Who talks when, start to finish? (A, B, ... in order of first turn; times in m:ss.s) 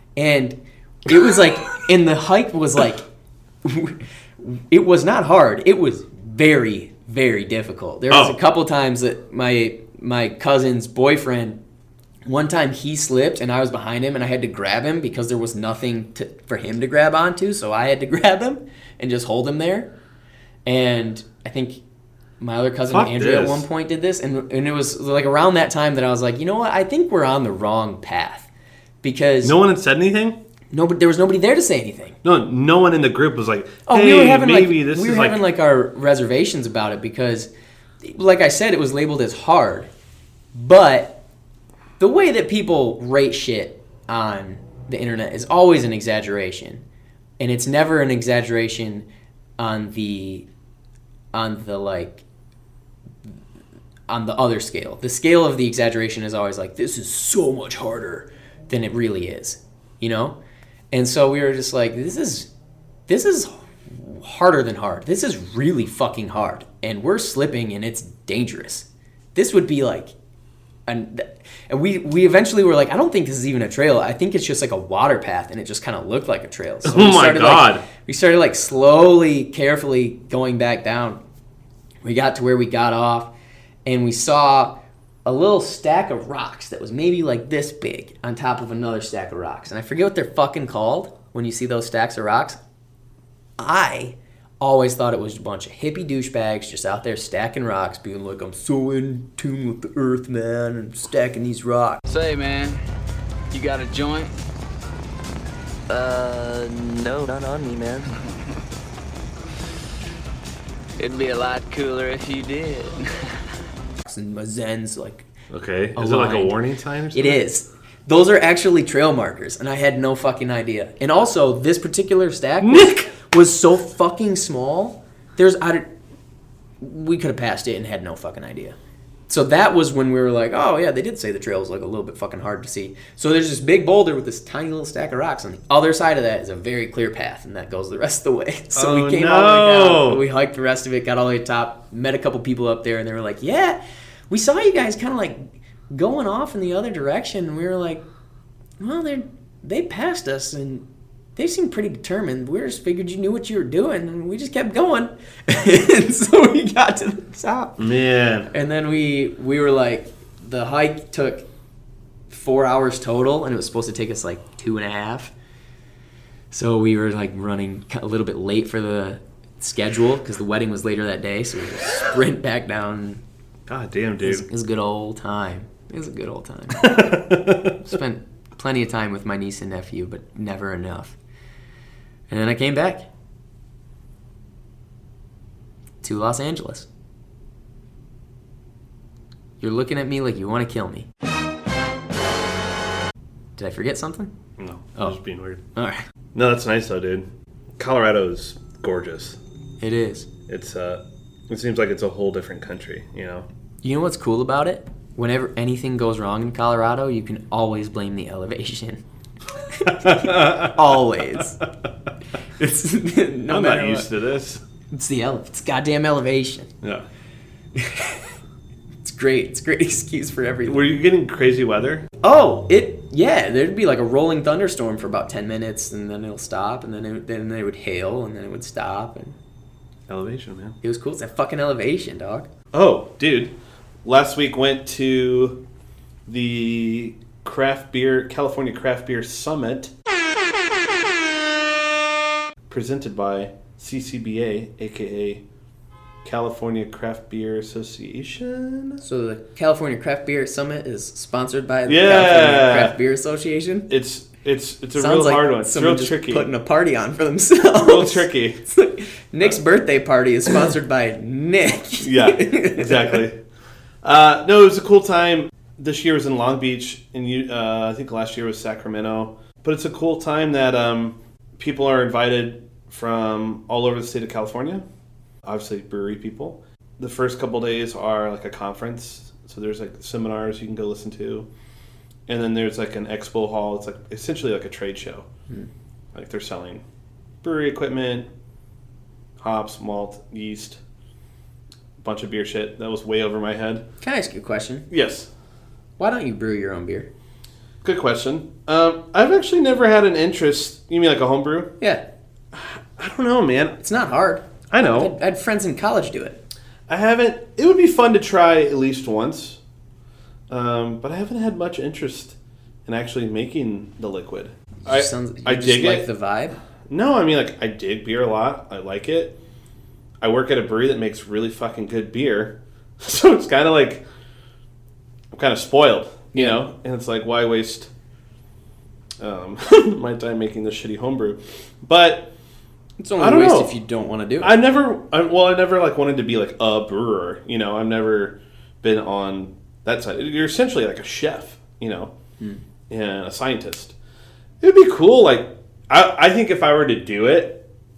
0:00.2-0:03.0 A
0:03.6-0:11.6 A
0:08.1-0:08.4 B
0:12.2-0:19.9 A
0:20.6-0:21.8 A
0:22.4-0:28.5 A
0:22.9-0:23.6 B
0:29.0-0:29.6 A
0:29.4-0:30.4 B
0:30.7-0:32.2 A
0:32.2-0:35.4 B
0:33.9-0:37.5 A
0:38.0-0:39.9 A
0:40.5-0:41.2 A
0:42.0-0:46.8 A
0:47.4-0:49.0 A
0:49.6-0:50.4 A
0:51.3-0:52.2 A
0:54.1-1:00.4 A
1:00.9-1:02.5 A
1:03.1-1:10.1 A
1:10.9-1:21.2 A
1:16.8-1:17.8 B
1:22.0-1:23.3 A
1:23.8-1:32.6 A
1:33.6-1:42.0 A
1:42.1-1:42.8 C
1:43.5-1:44.3 C
1:45.9-1:48.2 C
1:51.0-1:53.3 C
1:54.0-1:55.3 A
1:55.5-1:57.4 B
1:56.0-1:56.6 A
1:57.1-2:05.9 A
2:02.6-2:03.1 B
2:06.8-2:08.8 A
2:09.3-2:28.0 A
2:18.7-2:20.2 B
2:28.8-2:30.8 A
2:31.4-2:37.8 A
2:37.8-2:38.5 B
2:38.5-2:41.4 A
2:42.3-2:45.3 A
2:46.5-2:53.2 A
2:53.7-2:54.4 B
2:54.2-3:01.2 A
2:56.8-2:57.8 B
3:02.3-3:03.0 A
3:06.0-3:06.9 A
3:09.6-3:11.1 A
3:13.6-3:14.3 A
3:14.6-3:15.6 B
3:15.7-3:16.0 A
3:16.3-3:19.4 B
3:19.8-3:20.3 A
3:20.5-3:23.5 B
3:23.8-3:29.0 A
3:29.7-3:31.6 A
3:29.8-3:30.9 B
3:32.6-3:34.1 A
3:33.5-3:34.6 B
3:34.9-3:36.7 A
3:37.7-3:38.3 A
3:39.0-3:40.9 A
3:40.6-3:42.1 B
3:42.2-3:49.4 A
3:50.1-3:50.8 B
3:50.8-3:52.5 A
3:52.7-3:55.6 B
3:56.2-3:59.9 B
4:02.7-4:05.4 B
4:06.2-4:09.0 B
4:09.0-4:13.9 A
4:11.8-4:13.0 B
4:13.9-4:16.5 B
4:15.0-4:23.2 A
4:17.7-4:18.6 B
4:22.0-4:23.4 B
4:24.0-4:34.8 B
4:35.4-4:41.5 B
4:42.3-4:45.3 B
4:46.1-4:46.8 B
4:47.4-4:48.3 B
4:49.4-4:50.8 B
4:52.0-4:53.8 B
4:54.0-4:54.8 A
4:54.9-4:55.3 B
4:56.0-4:57.1 A
4:57.8-5:01.7 B
5:01.8-5:02.0 A
5:02.5-5:03.8 B
5:03.8-5:06.4 A
5:04.7-5:05.1 B
5:06.9-5:09.6 B
5:10.5-5:16.0 B
5:14.8-5:16.6 A
5:16.9-5:19.4 B
5:20.2-5:24.0 B
5:25.3-5:27.9 B
5:26.3-5:26.6 A
5:29.2-5:32.3 B
5:33.0-5:34.5 A
5:33.2-5:33.7 B
5:34.4-5:42.1 B
5:42.9-5:43.9 B
5:44.6-5:47.6 B